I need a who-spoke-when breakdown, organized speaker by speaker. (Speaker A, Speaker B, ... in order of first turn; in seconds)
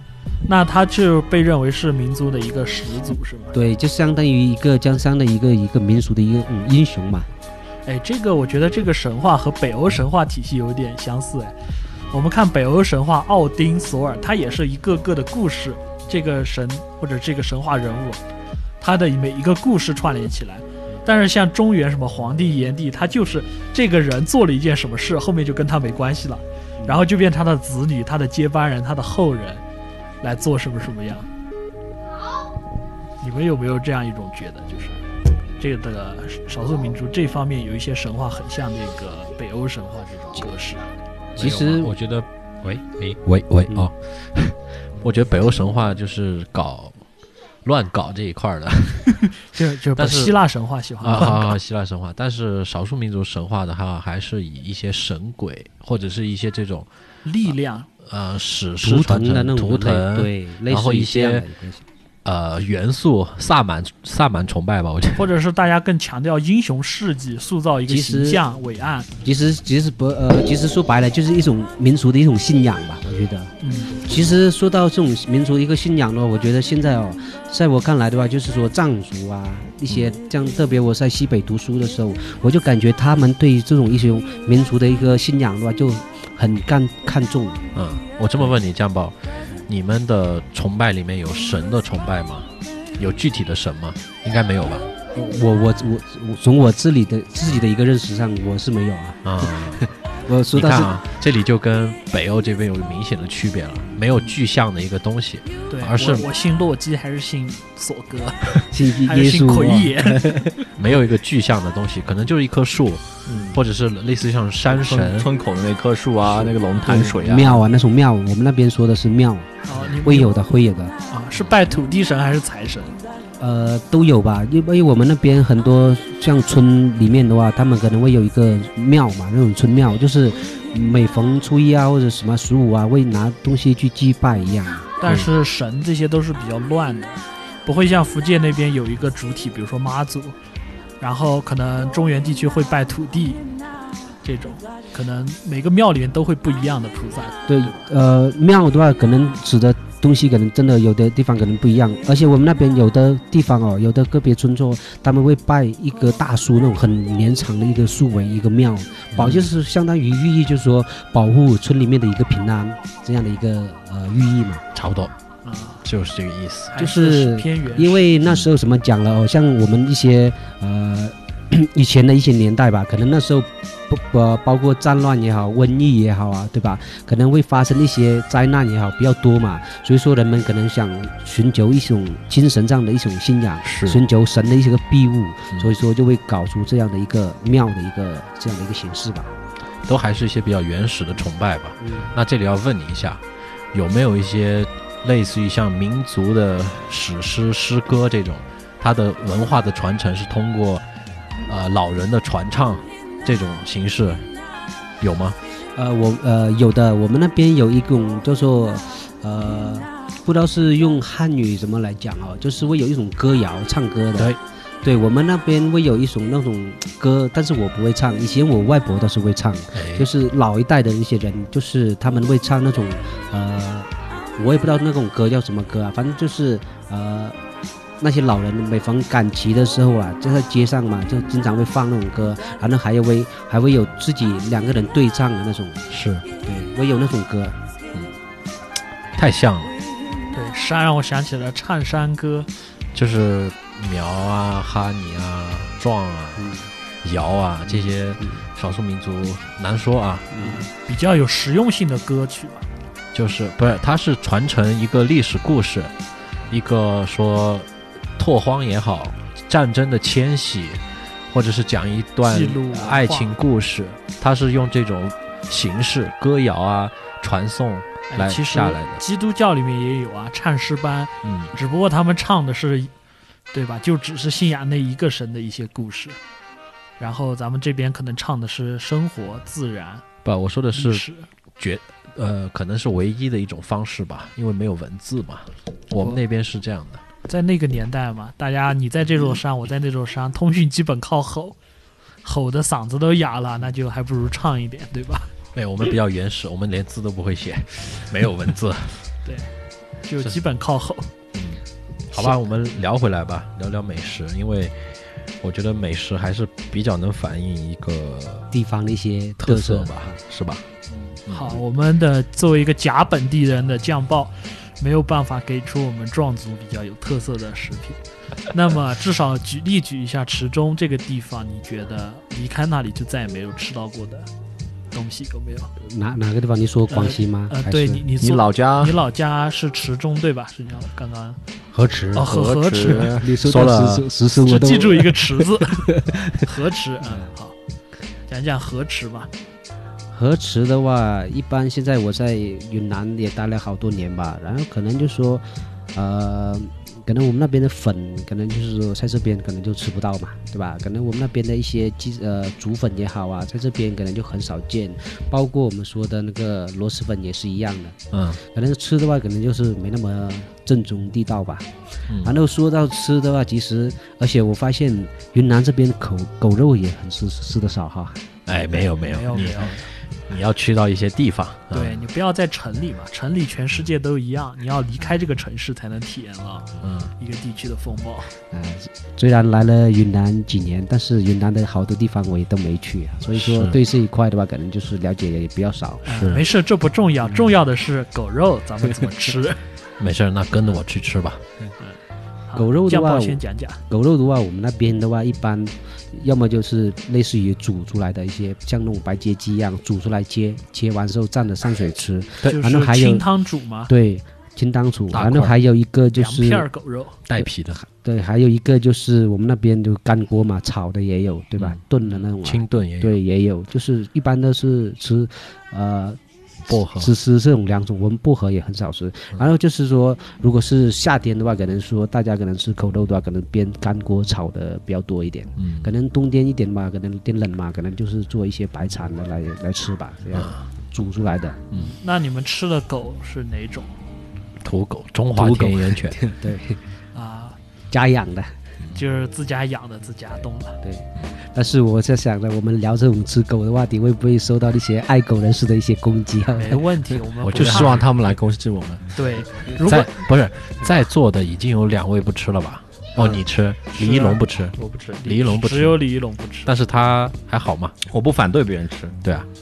Speaker A: 0.5-3.5, 7.9-11.6, 12.1-18.2, 18.8-29.6, 30.2-31.3, 33.2-35.0, 35.6-40.8, 49.3-51.6, 57.2-57.9, 65.2-69.1, 73.6-74.1, 105.7-110.6, 119.6-120.3, 121.1-123.0, 135.0-140.4, 141.0-143.4, 144.2-147.7, 165.4-165.8, 166.7-168.0, 240.3-242.5, 250.4-252.7, 262.2-263.3, 268.1-272.9, 273.5-276.2, 277.0-280.1, 280.7-281.3, 287.3-291.6, 292.2-295.3, 299.2-299.5, 300.0-301.1, 310.9-318.0, 318.5-324.3, 324.9-325.7, 326.9-331.4, 332.1-333.2, 334.3-337.6, 338.3-339.3, 368.7-369.9, 371.7-378.3, 386.1-389.6, 392.5-393.8, 402.4-403.9, 406.1-407.2, 431.7-434.0, 437.1-437.6, 438.9-440.8, 446.5-448.1, 449.1-450.1, 453.9-456.7
Speaker B: 3.5-7.3, 41.4-41.9, 58.8-61.9, 67.9-68.4, 69.2-87.6, 95.1-101.0, 108.7-110.5, 116.2-119.5, 120.0-120.9, 123.4-135.2, 147.5-164.6, 166.8-189.3, 191.8-192.2, 205.8-227.4, 228.0-235.9, 236.4-237.6, 246.4-246.7, 247.7-248.4, 250.3-250.7, 308.5-310.2, 325.8-328.1, 332.9-336.4, 337.0-337.3, 340.1-368.4, 378.5-386.1, 392.6-403.3, 403.9-406.7, 407.3-416.2, 416.7-431.6, 435.4-436.8, 437.9-438.6, 440.8-447.1
Speaker C: 41.4-47.0, 47.6-49.2, 50.0-50.4, 51.0-56.9, 58.0-61.5, 62.2-65.3, 87.8-94.9, 99.2-99.9, 100.5-106.3, 110.8-115.3, 159.1-159.5, 164.7-165.1, 165.8-166.8, 183.6-184.0, 189.8-200.9, 201.5-204.3, 205.0-205.4, 219.7-220.1, 235.9-236.3, 239.2-239.7, 242.9-250.6, 253.1-255.9, 256.5-269.0, 271.2-271.5, 280.2-281.1, 281.6-287.0, 295.5-299.1, 301.4-301.6, 302.1-304.8, 305.4-308.5, 309.4-310.7, 311.3-311.6, 331.8-332.1, 333.4-334.1, 358.1-358.4, 362.1-362.4, 368.5-372.0, 376.8-377.1, 383.3-383.8, 386.1-386.4, 390.0-391.4, 405.1-405.6, 407.3-407.8, 412.4-413.2, 416.7-417.1, 425.6-425.9, 434.6-436.2, 447.4-448.0, 449.8-456.0, 456.6-458.0, 459.2-459.5
Speaker D: 113.3-113.6, 114.7-117.7, 328.2-329.0, 332.1-333.3, 447.5-449.1, 458.0-459.2